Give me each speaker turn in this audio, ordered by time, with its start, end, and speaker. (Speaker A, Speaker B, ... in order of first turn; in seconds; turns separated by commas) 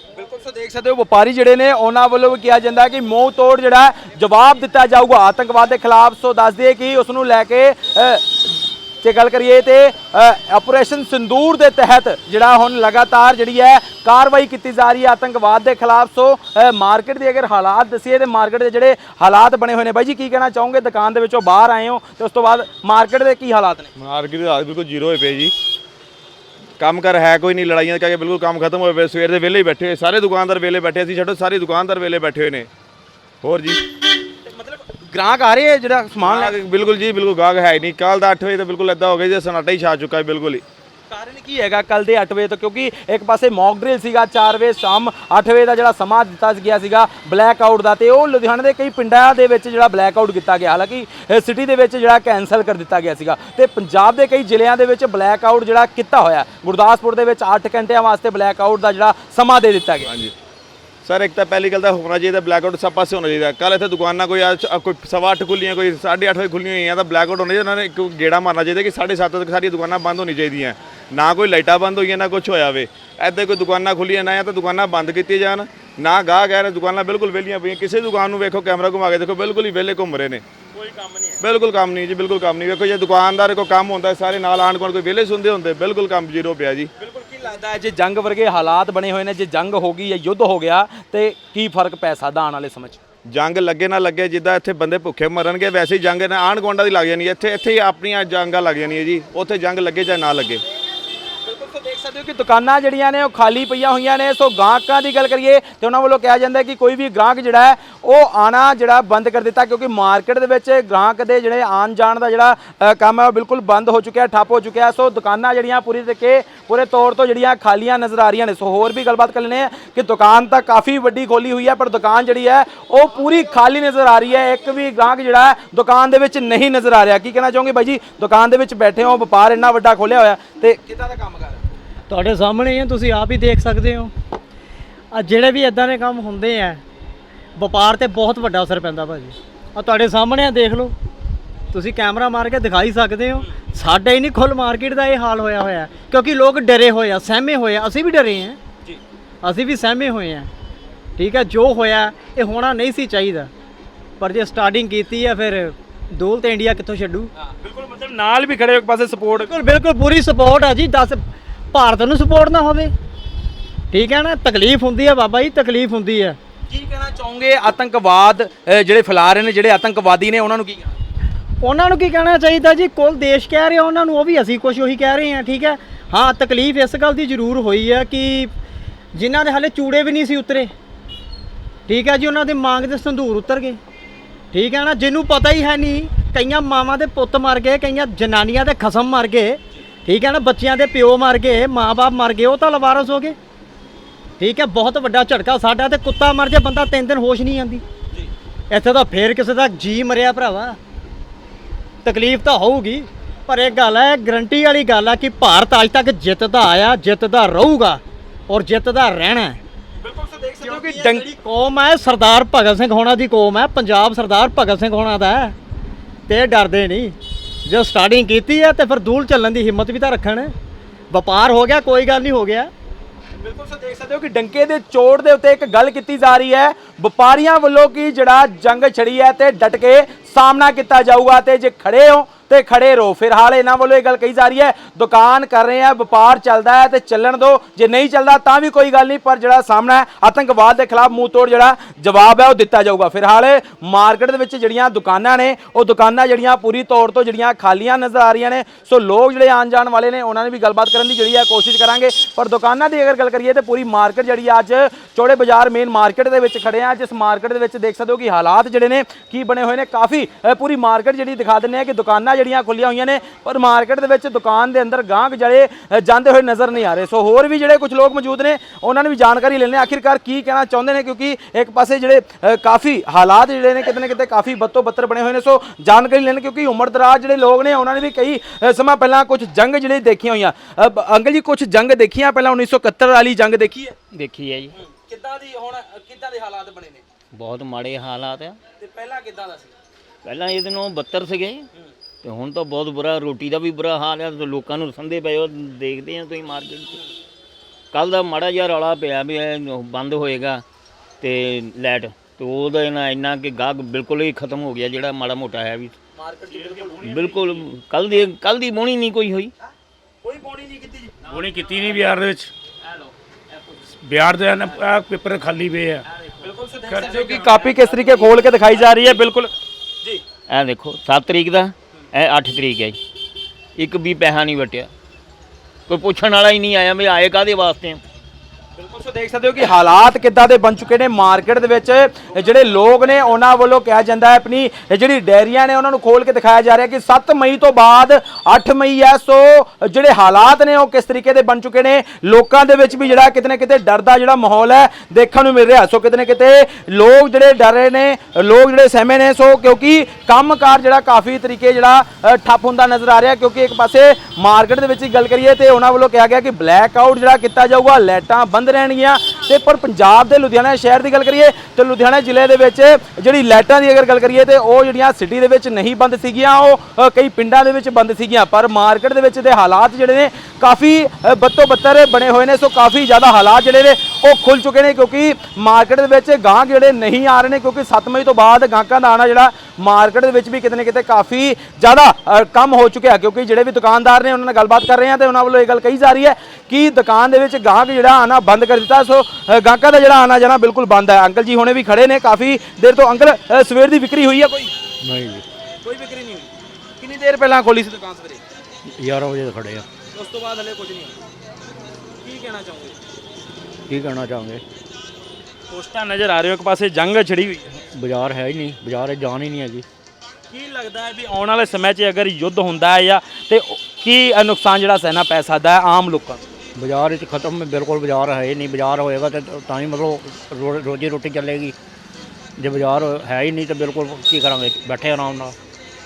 Speaker A: 0.2-23.9, Speaker B: 24.0-25.5, Speaker B: 26.8-32.7, Speaker B: 33.4-33.8, Speaker A: 34.5-36.5, Speaker B: 36.2-40.6, Speaker A: 41.1-60.1, Speaker B: 60.0-60.3, Speaker B: 61.0-80.4, Speaker A: 80.8-81.3, Speaker B: 81.4-86.9, Speaker A: 87.0-93.0, Speaker B: 93.3-100.6, Speaker A: 101.5-131.6, Speaker C: 132.1-134.1, Speaker C: 135.1-136.8, Speaker C: 137.6-140.9, Speaker C: 141.7-148.6, Speaker C: 149.4-150.5, Speaker C: 151.2-153.5, Speaker C: 154.2-157.3, Speaker A: 157.4-159.5, Speaker C: 159.3-161.2, Speaker C: 161.7-162.9, Speaker C: 163.9-166.4, Speaker A: 166.7-170.9, Speaker C: 171.6-178.5, Speaker C: 179.2-180.7, Speaker C: 181.9-183.8, Speaker C: 184.5-193.4, Speaker C: 194.4-197.8, Speaker C: 198.7-200.8, Speaker C: 202.0-209.6, Speaker A: 210.0-211.3, Speaker C: 210.6-215.6, Speaker C: 216.3-220.5, Speaker C: 221.1-222.7, Speaker A: 223.4-284.0, Speaker D: 284.1-284.7, Speaker A: 284.8-287.0, Speaker D: 287.3-288.6, Speaker A: 288.8-289.7, Speaker D: 290.2-291.7, Speaker D: 292.2-296.9, Speaker D: 297.9-300.6, Speaker D: 301.2-305.9, Speaker A: 306.2-307.3, Speaker D: 307.0-309.5, Speaker A: 310.2-311.2, Speaker E: 311.3-312.5, Speaker E: 314.0-316.0, Speaker A: 316.4-319.5, Speaker D: 320.5-323.0, Speaker D: 323.8-324.9, Speaker D: 325.9-328.0, Speaker A: 328.8-394.7, Speaker F: 395.1-395.4, Speaker A: 395.8-398.4, Speaker F: 399.0-399.9, Speaker A: 400.1-401.2, Speaker A: 402.2-402.9, Speaker F: 403.9-404.6, Speaker A: 405.7-407.8, Speaker F: 408.0-409.9, Speaker A: 410.5-416.4, Speaker F: 416.8-421.7, Speaker F: 422.6-425.6